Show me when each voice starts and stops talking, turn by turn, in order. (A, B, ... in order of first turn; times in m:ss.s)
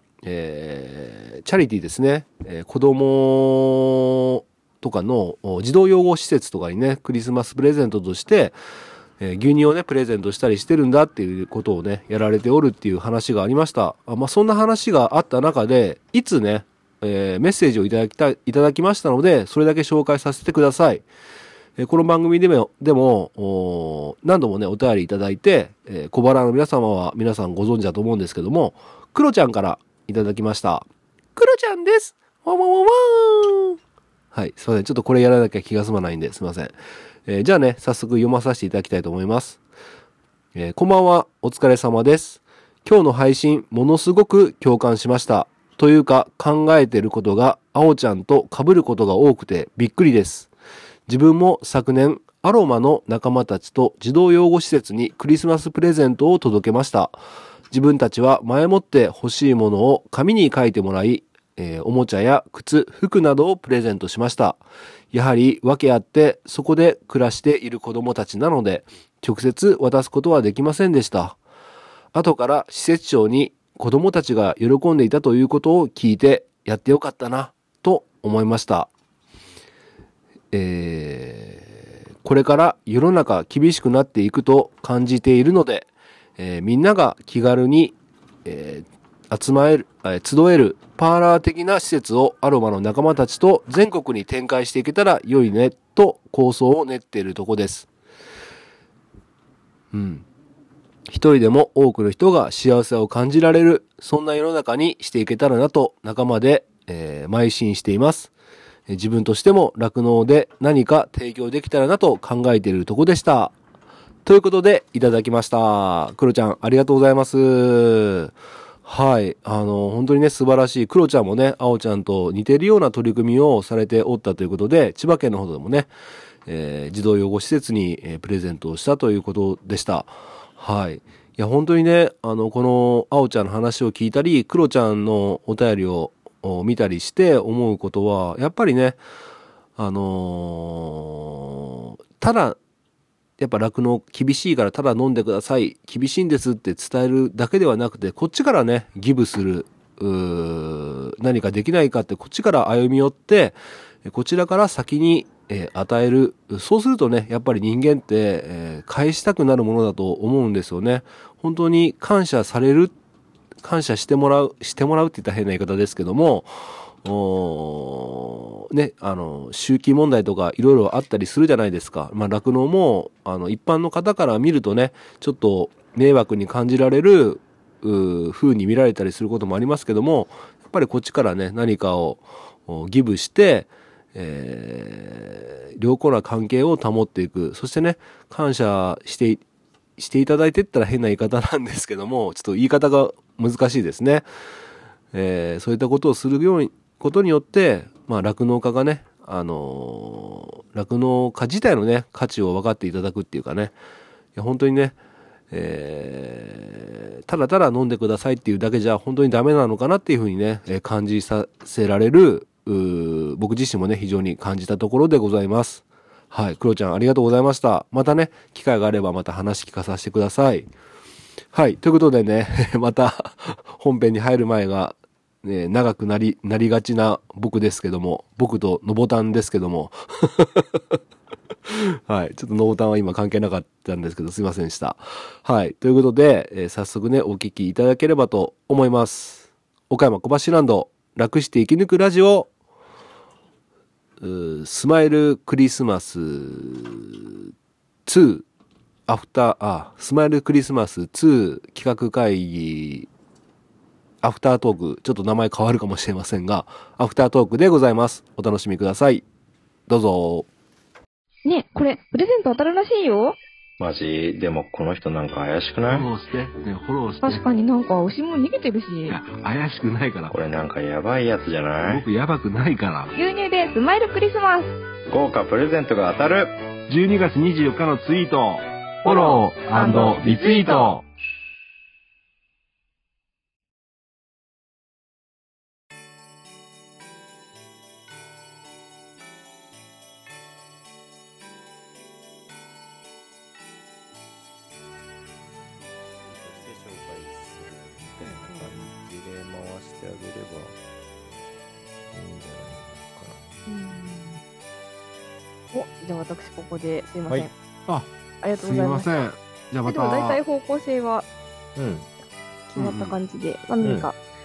0:00.2-0:08.6 A
0:09.2-0:21.0 A
0:21.8-0:33.8 A
0:34.3-0:36.8 A
0:37.3-0:39.6 A
0:40.6-0:50.5 A
0:51.1-0:57.2 A
0:57.7-1:11.4 A
1:12.1-1:18.9 A
1:20.5-1:37.9 A
1:39.9-1:40.3 A
1:41.1-1:48.3 A
1:48.9-1:53.6 A
1:54.2-1:58.3 A
1:58.8-2:05.9 A
2:06.5-2:19.0 A
2:19.8-2:22.6 A
2:23.4-2:42.9 A
2:43.6-3:09.4 A
3:10.0-3:14.2 A
3:15.1-3:23.8 A
3:24.4-3:25.0 A
3:25.5-3:40.7 A
3:41.5-3:51.0 A
3:51.7-4:02.5 A
4:04.2-4:07.2 A
4:08.1-4:08.5 A
4:09.1-4:13.1 A
4:14.2-4:19.3 A
4:19.9-4:20.5 A
4:21.5-4:23.4 B
4:23.8-4:26.1 C
4:25.9-4:27.5 A
4:27.2-4:29.2 B
4:29.1-4:30.4 A
4:30.3-4:32.0 C
4:31.8-4:33.2 A
4:33.2-4:34.7 B
4:35.1-4:36.6 C
4:36.9-4:41.0 A
4:39.1-4:40.9 B
4:56.2-5:00.8 C
4:58.2-4:58.8 B
5:02.1-5:03.6 C
5:03.7-5:04.4 B
5:05.7-5:07.5 B
5:07.9-5:10.4 A
5:08.4-5:09.1 B
5:09.8-5:11.3 B
5:11.8-5:12.1 C
5:12.7-5:14.2 B
5:12.8-5:13.2 A
5:13.8-5:14.1 C